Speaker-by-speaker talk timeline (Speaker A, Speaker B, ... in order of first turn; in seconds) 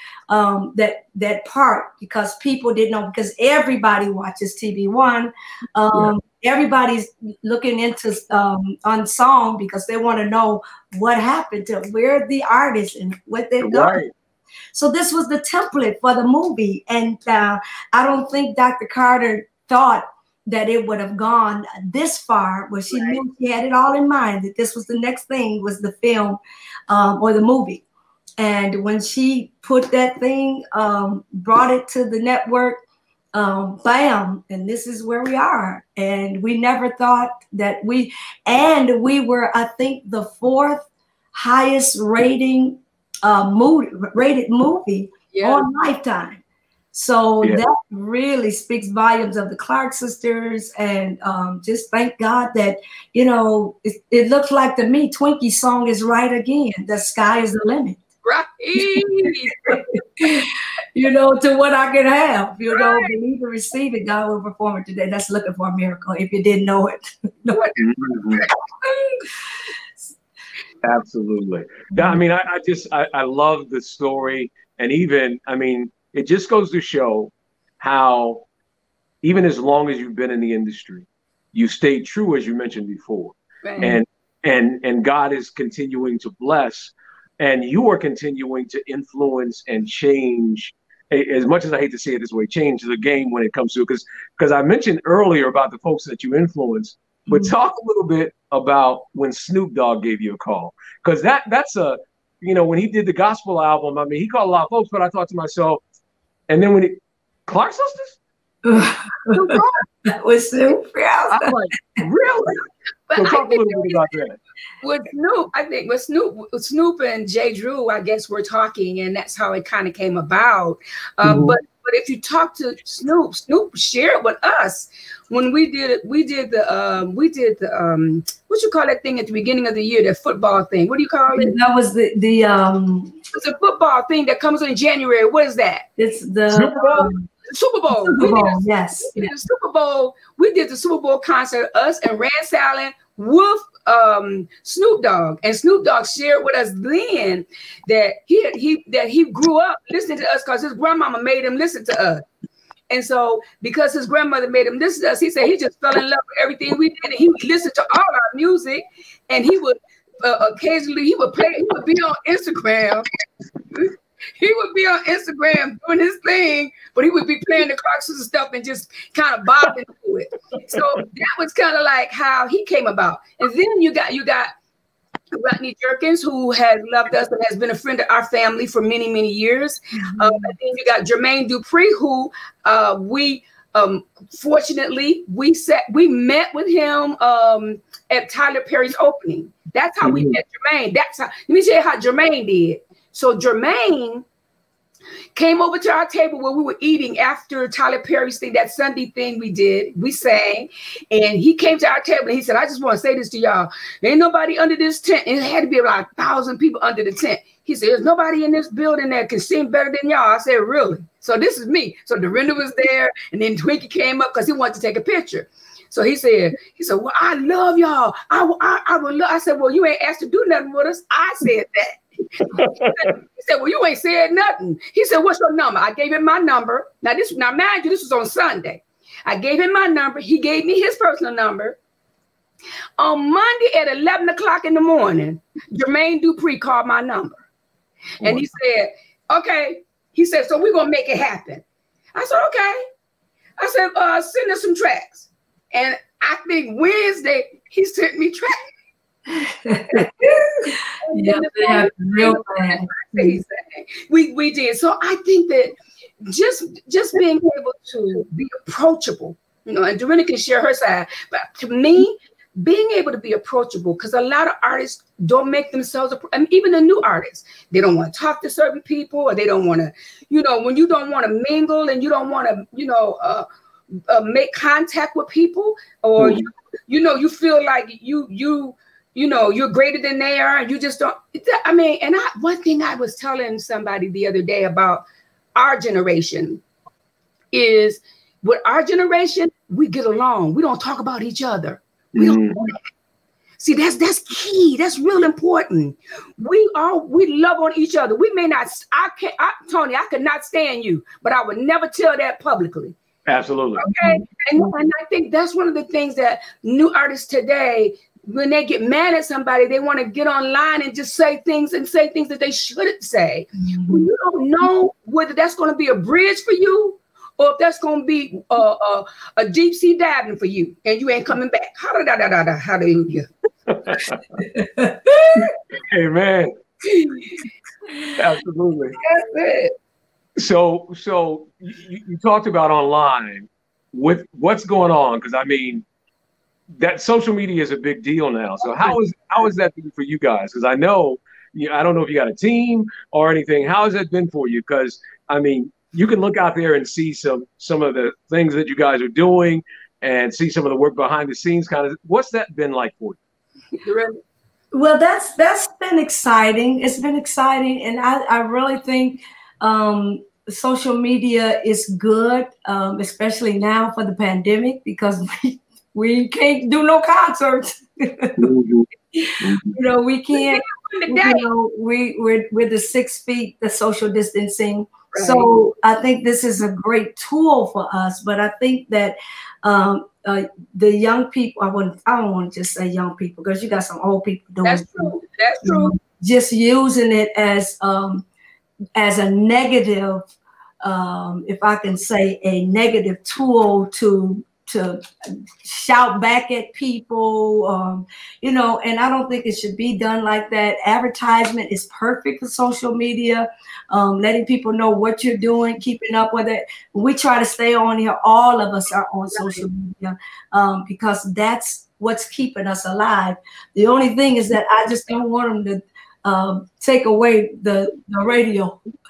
Speaker A: 0.3-14.0, 14.7-27.8, 28.4-32.8, 33.3-58.0, 59.6-67.6, 68.8-69.2, 71.9-72.2, 97.3-97.5, 108.6-111.5, 131.3-133.1, 136.0-137.3, 137.9-139.3, 179.9-180.5, 249.3-253.4, 303.9-304.7, 313.6-314.1, 324.5-325.5, 354.7-368.5, 369.1-388.2, 388.9-390.3, 390.8-418.8
Speaker B: 13.6-14.1, 67.8-68.4, 70.8-78.4, 79.2-105.8, 106.5-108.2, 111.3-114.4, 121.2-121.6, 136.5-137.1, 190.0-190.4, 222.6-223.0, 276.2-276.5, 292.1-292.6, 303.2-303.9, 323.7-324.2, 325.9-326.5, 328.1-328.9, 330.4-335.8, 336.8-353.2, 368.4-368.9, 369.4-369.8
Speaker C: 45.3-45.6, 58.2-59.8, 62.7-63.1, 67.5-67.8, 83.6-84.0, 109.3-109.8, 113.1-114.1, 114.8-131.6, 133.3-135.8, 137.0-152.2, 152.9-163.1, 163.7-174.5, 175.3-194.2, 195.3-231.8, 233.0-237.4, 238.2-241.6, 242.1-242.8, 243.6-248.6, 251.0-273.4, 274.0-285.0, 285.6-286.6, 287.5-292.8, 293.6-303.0, 303.7-323.3, 326.8-327.4, 329.0-329.7, 353.8-354.2, 370.3-371.5, 375.1-375.5, 384.6-385.9, 409.4-409.6